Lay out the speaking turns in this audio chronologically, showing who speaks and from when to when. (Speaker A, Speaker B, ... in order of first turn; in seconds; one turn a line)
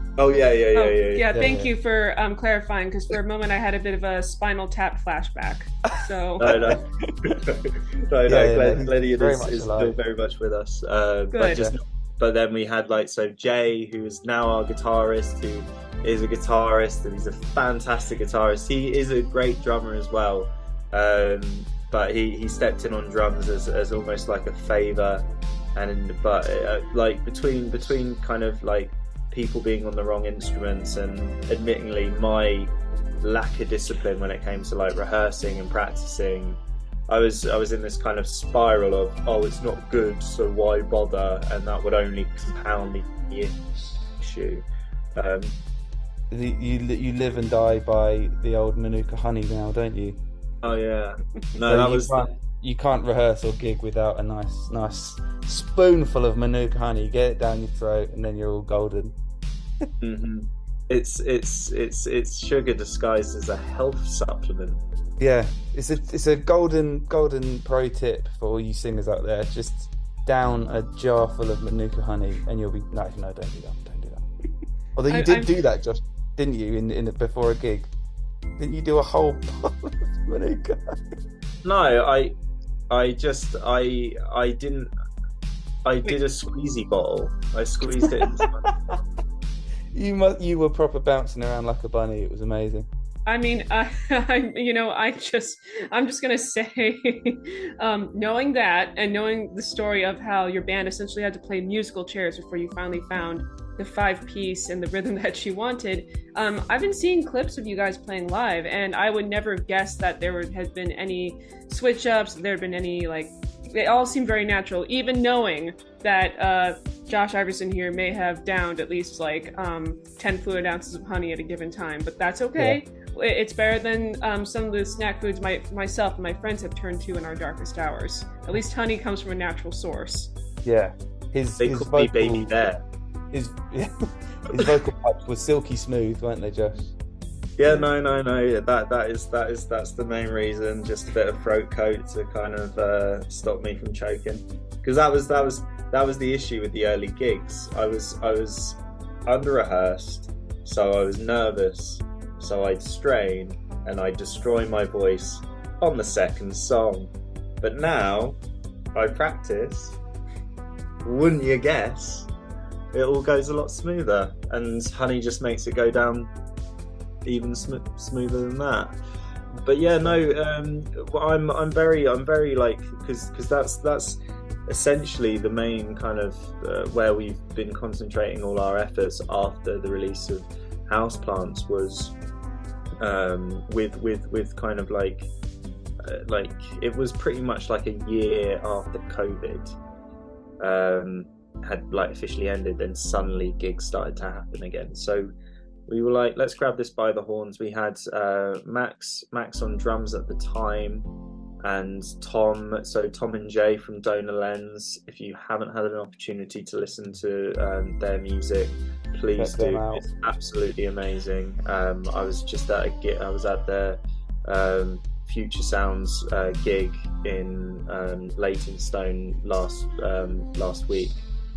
Speaker A: 0.2-1.3
Speaker B: 0.7-6.5
Speaker C: 1.3-1.7
Speaker A: 6.4-43.6
Speaker C: 6.4-7.1
Speaker C: 8.3-9.9
Speaker B: 11.3-11.6
Speaker C: 11.5-11.8
Speaker A: 44.2-44.6
Speaker A: 45.1-45.5
Speaker C: 46.3-50.2
Speaker A: 50.6-52.3
Speaker C: 51.6-59.1
Speaker A: 60.0-64.8
Speaker C: 65.2-74.3
Speaker C: 74.9-77.9
Speaker B: 75.1-75.5
Speaker C: 78.6-81.1
Speaker A: 81.6-82.3
Speaker A: 82.9-84.9
Speaker A: 85.8-88.7
Speaker C: 88.6-89.0
Speaker C: 89.9-92.9
Speaker B: 93.2-130.3
Speaker C: 130.6-132.5
Speaker A: 131.6-132.8
Speaker C: 133.3-136.9
Speaker A: 137.6-158.4
Speaker A: 158.9-160.0
Speaker A: 161.0-162.3
Speaker A: 162.9-166.3
Speaker A: 167.2-168.9
Speaker A: 169.6-182.1
Speaker A: 183.0-185.3
Speaker A: 186.0-189.8
Speaker A: 190.6-195.3
Speaker A: 195.9-201.1
Speaker A: 201.6-221.2
Speaker C: 209.4-210.1